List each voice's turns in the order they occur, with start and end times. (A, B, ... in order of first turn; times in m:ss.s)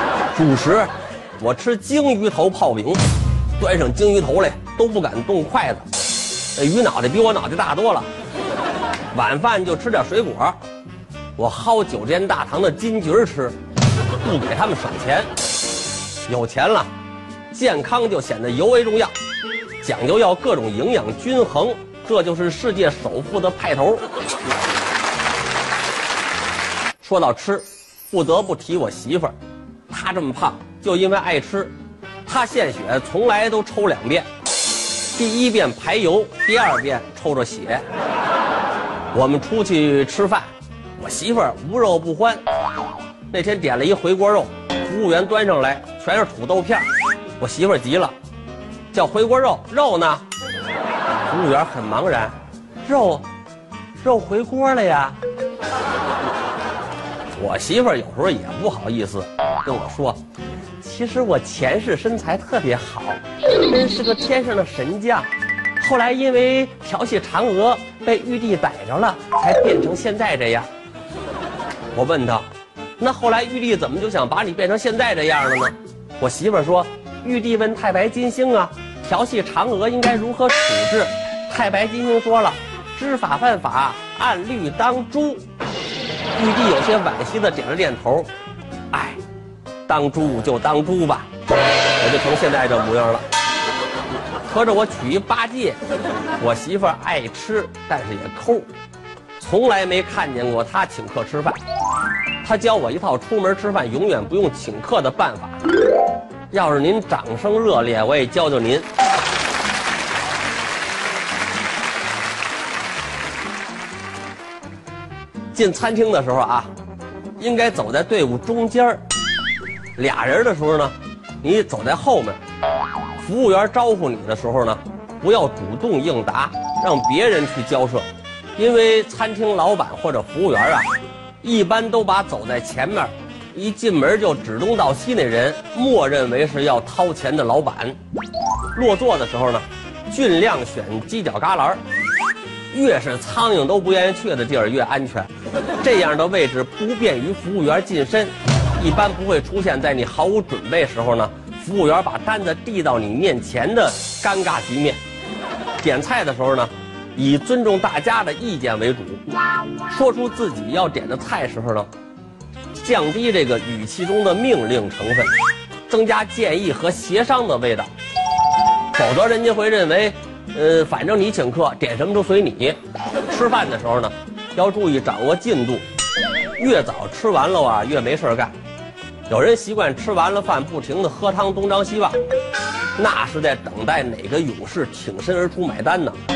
0:00.4-0:03.0 A
0:03.6-0:05.8 A
0:06.6-0:08.1 A
0:09.1-0:10.6 A
0:11.4-0:13.6 A
0:14.2-0:15.3 A
0:16.3-0:16.9 A
0:17.5-0:19.1 A
0:19.8-0:24.0 A
0:27.0-0:29.3 A
0:29.9-0:31.7 A
0:32.3-0:34.3 A
0:35.2-0:37.8 A
0:39.1-0:42.4 A
0:43.3-0:46.9 A
0:47.4-0:48.1 A
0:48.9-0:50.2 A
0:51.3-0:53.2 A
0:54.0-0:55.2 A
0:57.4-1:00.2 A
1:00.8-1:05.3 A
1:05.8-1:10.7 A
1:11.9-1:12.4 A
1:13.0-1:25.4 A
1:26.4-1:28.3 A
1:28.9-1:29.2 A
1:29.9-1:31.3 A
1:32.0-1:33.2 A
1:34.5-1:35.8 A
1:36.4-1:38.7 A
1:39.4-1:41.6 A
1:42.4-1:45.6 A
1:46.5-1:48.9 A
1:55.5-1:56.7 A
1:57.4-1:59.0 A
2:00.0-2:02.4 A
2:03.2-2:08.1 A
2:08.6-2:10.9 A
2:11.4-2:18.0 A
2:18.8-2:21.8 A
2:22.7-2:25.3 A
2:25.8-2:35.0 A
2:35.8-2:39.2 A
2:39.9-2:41.9 A
2:42.8-2:45.3 A
2:45.9-2:47.9 A
2:48.9-2:52.8 A
2:53.3-2:55.8 A
2:56.6-2:58.5 A
2:59.3-3:02.2 A
3:03.0-3:06.2 A